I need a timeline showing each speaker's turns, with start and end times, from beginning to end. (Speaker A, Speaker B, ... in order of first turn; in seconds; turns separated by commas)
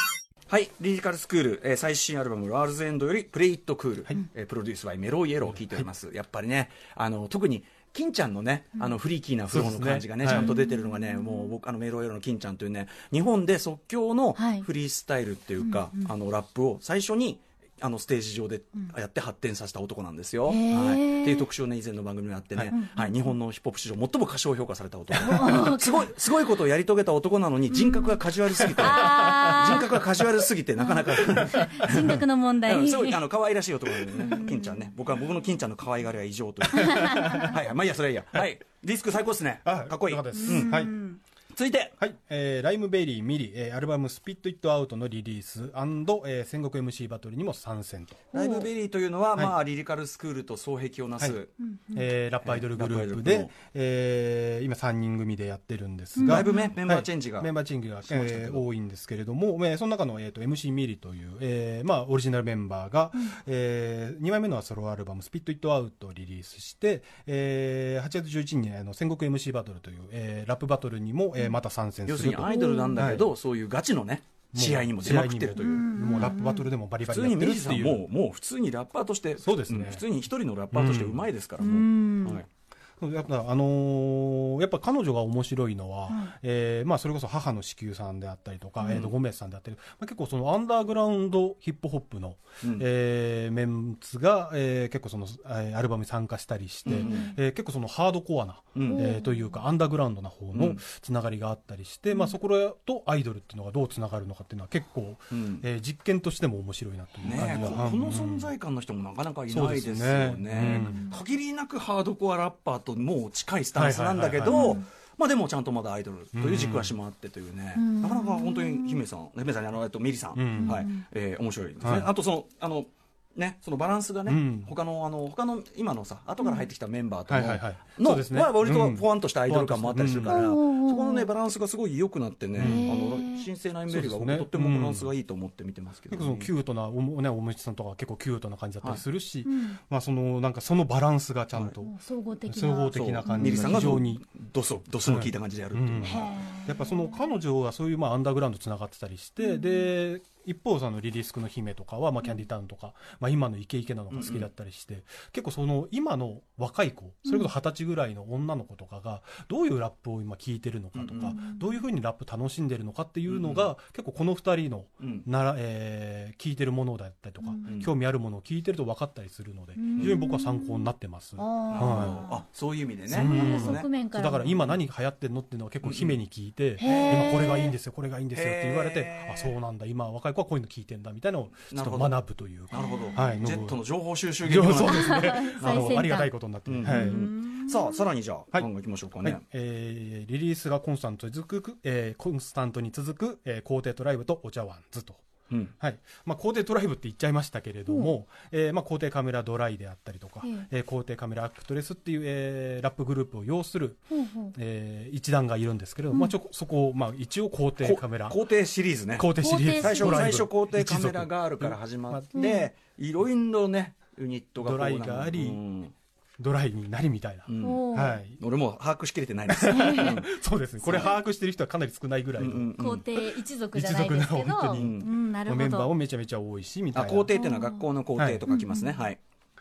Speaker A: 0.5-40.8, Speaker B: 5.5-5.9, Speaker B: 9.5-10.5, Speaker C: 10.2-11.5, Speaker C: 14.4-14.7, Speaker C: 15.6-16.1, Speaker C: 20.5-21.5, Speaker C: 22.7-23.3, Speaker B: 25.2-25.5, Speaker C: 25.2-26.5, Speaker C: 27.7-30.0, Speaker B: 28.5-29.5, Speaker C: 30.8-33.2, Speaker C: 34.0-34.9, Speaker C: 36.7-37.5, Speaker B: 36.8-37.4, Speaker B: 39.6-41.0, Speaker C: 40.3-41.2, Speaker A: 41.5-42.0, Speaker B: 42.0-48.2, Speaker C: 48.3-48.7, Speaker A: 48.3-51.5, Speaker C: 51.6-52.1, Speaker B: 51.9-73.3, Speaker A: 52.4-53.5, Speaker C: 56.2-56.7, Speaker A: 56.3-57.5, Speaker A: 58.0-58.7, Speaker A: 72.1-76.4, Speaker C: 72.5-73.0, Speaker B: 74.5-78.1, Speaker C: 75.6-76.7, Speaker A: 77.0-82.5, Speaker B: 79.4-80.1, Speaker B: 80.7-81.3, Speaker C: 81.6-82.4, Speaker B: 83.0-108.5, Speaker A: 92.6-92.9, Speaker A: 96.9-97.3, Speaker C: 96.9-97.3, Speaker A: 98.8-99.1, Speaker C: 98.9-99.6, Speaker A: 100.5-100.8, Speaker C: 102.1-102.3, Speaker A: 105.3-105.7, Speaker C: 107.2-107.8, Speaker A: 107.2-136.5, Speaker B: 109.5-111.1, Speaker C: 110.5-111.2, Speaker B: 113.8-114.8, Speaker C: 114.5-114.8, Speaker B: 116.3-117.0, Speaker C: 117.8-119.1, Speaker B: 120.3-120.9, Speaker C: 120.5-121.0, Speaker B: 121.8-122.1, Speaker B: 124.3-124.7, Speaker C: 126.4-126.7, Speaker B: 127.3-130.5, Speaker C: 130.3-131.3, Speaker B: 132.6-133.1, Speaker C: 132.6-133.5, Speaker B: 133.9-135.1, Speaker B: 136.1-141.9, Speaker C: 139.4-139.8, Speaker C: 141.8-143.9, Speaker B: 142.5-144.2, Speaker A: 142.9-146.3, Speaker B: 145.0-172.2, Speaker C: 146.0-147.4, Speaker C: 149.4-149.9, Speaker A: 154.1-154.5, Speaker C: 157.3-157.5, Speaker A: 160.9-161.4, Speaker C: 161.2-161.7, Speaker A: 163.3-163.7, Speaker A: 165.0-165.3, Speaker C: 167.4-167.8, Speaker A: 167.7-167.9, Speaker C: 169.8-172.4, Speaker A: 169.9-170.2, Speaker A: 171.7-173.9, Speaker B: 173.1-183.8, Speaker C: 173.1-174.5, Speaker A: 174.5-174.8, Speaker A: 175.8-176.2, Speaker C: 176.8-177.8, Speaker A: 176.8-177.4, Speaker A: 178.3-179.6, Speaker A: 181.7-182.2, Speaker C: 182.7-183.4, Speaker A: 182.7-186.1, Speaker B: 184.4-187.2, Speaker C: 184.8-186.3, Speaker A: 186.7-189.4, Speaker C: 186.8-188.1, Speaker B: 189.2-195.2, Speaker B: 195.8-208.6, Speaker C: 204.1-204.5, Speaker A: 207.8-215.9, Speaker B: 209.1-212.3, Speaker C: 209.4-210.5, Speaker C: 212.3-212.7, Speaker B: 214.6-215.6, Speaker B: 216.4-218.4, Speaker A: 217.5-220.3, Speaker C: 217.6-218.2, Speaker B: 219.5-222.7, Speaker C: 219.7-220.2, Speaker A: 220.8-221.2, Speaker A: 222.4-223.1, Speaker C: 222.8-225.9, Speaker B: 223.7-227.3, Speaker A: 224.8-225.1, Speaker A: 226.9-229.2, Speaker C: 227.3-227.9, Speaker B: 228.2-228.5, Speaker C: 228.5-229.1